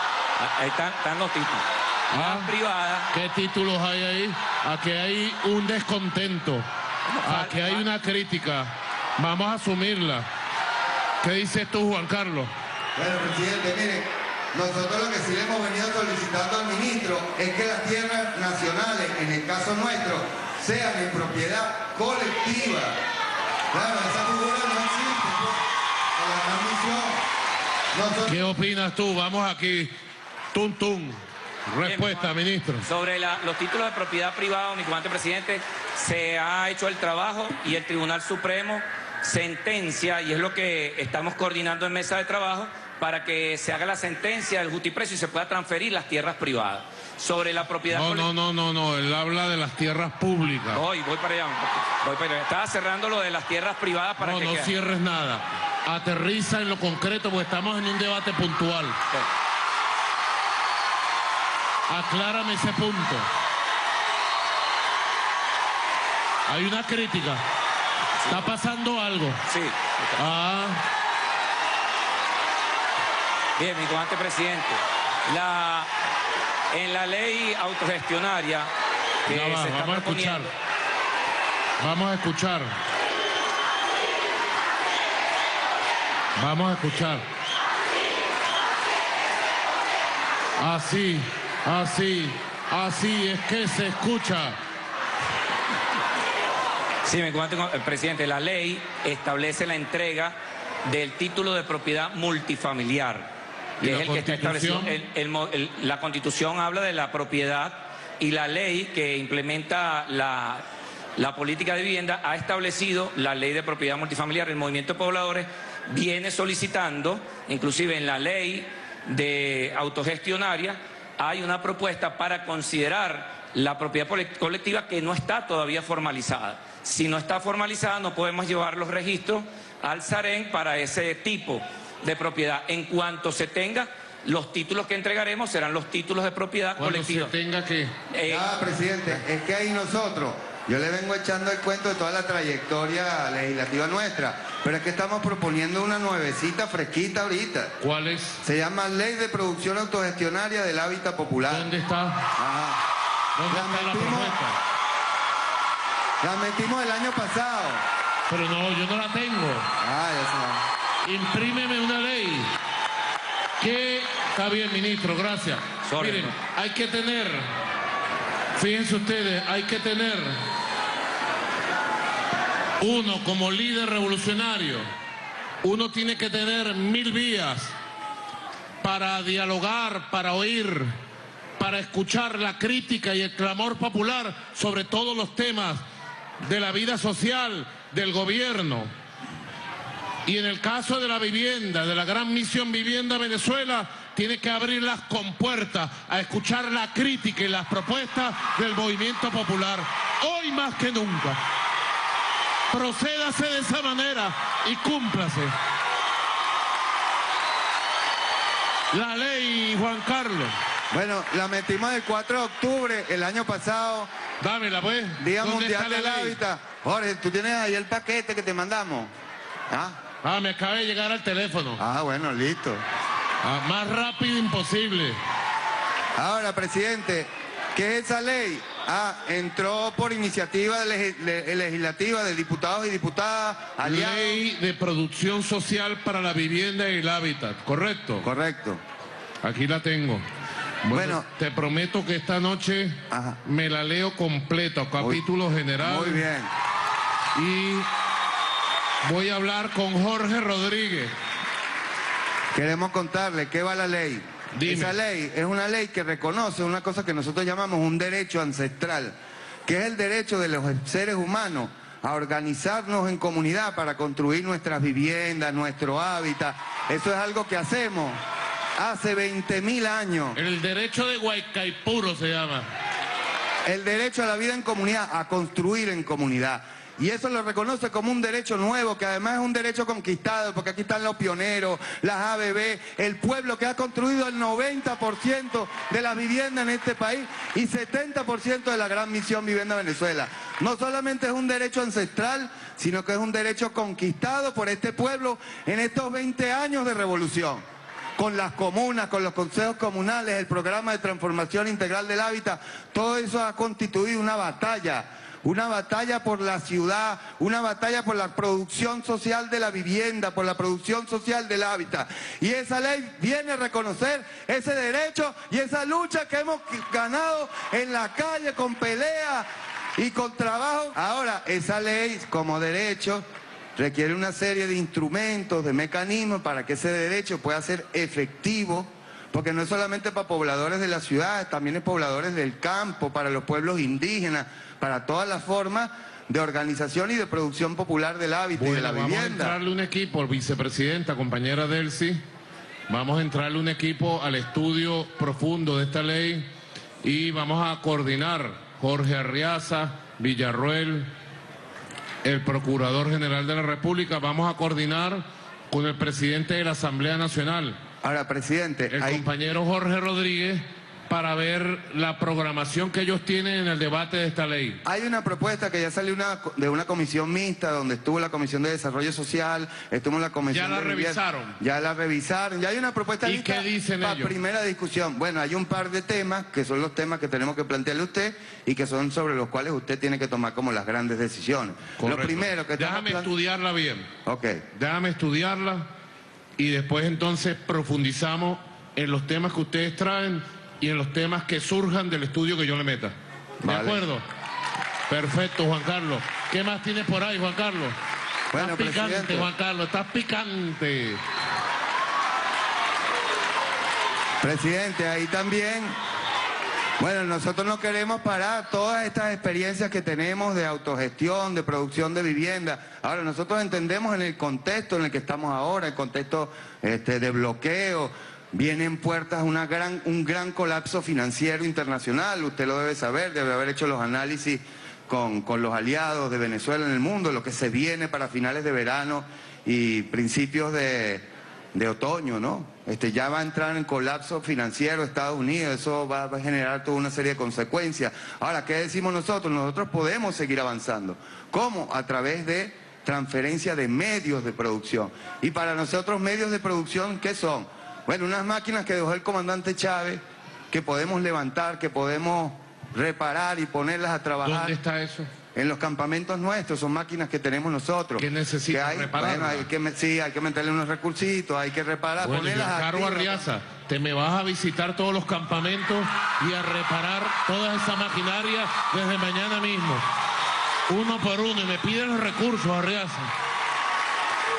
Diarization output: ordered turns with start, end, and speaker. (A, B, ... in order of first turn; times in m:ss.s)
0:00.4-0:03.1 A
0:02.1-0:02.5 B
0:03.1-0:06.6 B
0:07.1-0:07.8 A
0:07.2-0:10.3 B
0:11.2-0:12.5 B
0:13.0-0:23.0 C
0:23.7-0:25.6 C
0:26.2-0:27.2 C
0:27.9-0:28.5 C
0:28.2-0:29.9 B
0:30.5-0:32.9 B
0:31.8-0:32.3 A
0:32.8-0:48.3 A
0:47.9-0:50.8 B
0:50.7-0:54.7 A
0:54.2-0:59.0 B
1:01.9-1:03.3 B
1:06.5-1:07.4 B
1:08.2-1:08.5 A
1:08.3-1:09.4 B
1:09.5-1:10.2 A
1:10.2-1:10.8 B
1:13.6-1:15.9 A
1:16.7-1:18.7 A
1:19.2-1:20.5 A
1:19.3-1:20.5 B
1:21.8-1:22.7 B
1:26.4-1:27.2 B
1:30.6-1:34.6 B
1:37.0-1:43.3 A
1:43.8-1:44.9 B
1:43.8-1:50.6 A
1:51.2-2:17.3 A
2:16.8-2:17.9 B
2:18.1-2:18.5 A
2:18.3-2:27.7 C
2:27.8-2:28.4 B
2:28.4-2:31.7 C
2:31.5-2:32.3 B
2:32.4-2:32.8 C
2:33.4-2:34.6 B
2:33.5-2:34.4 C
2:36.2-2:37.8 C
2:38.3-2:39.7 B
2:39.8-2:40.6 C
2:41.0-2:42.5 B
2:43.6-2:47.5 B
2:45.8-2:46.4 A
2:48.6-2:50.4 B
2:52.8-2:54.8 B
2:55.6-2:57.7 B
2:58.8-3:00.9 B
3:01.6-3:05.8 B
3:06.4-3:08.9 B
3:10.2-3:21.4 B
3:22.7-3:25.5 B
3:28.9-3:30.5 B
3:30.9-3:34.1 C
3:34.4-3:36.4 B
3:35.2-3:39.1 C
3:39.7-3:40.0 C
3:40.2-3:41.8 B
3:41.8-3:42.8 C
3:43.4-3:45.2 B
3:46.2-3:54.4 C
3:53.8-3:58.3 B
3:58.2-3:58.8 C
3:59.4-4:00.3 B
4:00.8-4:06.2 B
4:00.9-4:01.2 C
4:03.1-4:03.4 C
4:05.8-4:06.5 C
4:07.3-4:07.9 B
4:09.0-4:11.1 B
4:12.5-4:19.1 C
4:14.5-4:14.9 B
4:19.7-4:28.2 C
4:28.8-4:30.4 C
4:30.3-4:32.7 B
4:33.6-4:57.6 C
4:58.2-5:23.2 C
5:23.8-5:39.5 C
5:38.6-5:42.2 B
5:42.9-5:46.5 B
5:47.0-5:51.1 B
5:52.2-5:57.8 B
5:58.0-5:59.2 C
5:58.9-6:04.8 B
6:04.8-6:23.3 C
6:10.5-6:11.6 B
6:13.2-6:14.3 B
6:22.0-6:24.1 B
6:24.2-6:24.6 C
6:24.7-6:25.9 B
6:26.6-6:34.2 B
6:33.6-6:34.0 C
6:35.1-6:38.0 B
6:38.5-6:39.5 C
6:38.5-6:41.2 B
6:44.4-6:45.9 C
6:47.0-7:30.2 C
7:30.7-7:34.8 C
7:34.4-7:35.3 B
7:35.5-7:43.5 C
7:38.2-7:39.7 B
7:42.2-7:50.0 B
7:50.9-7:53.3 B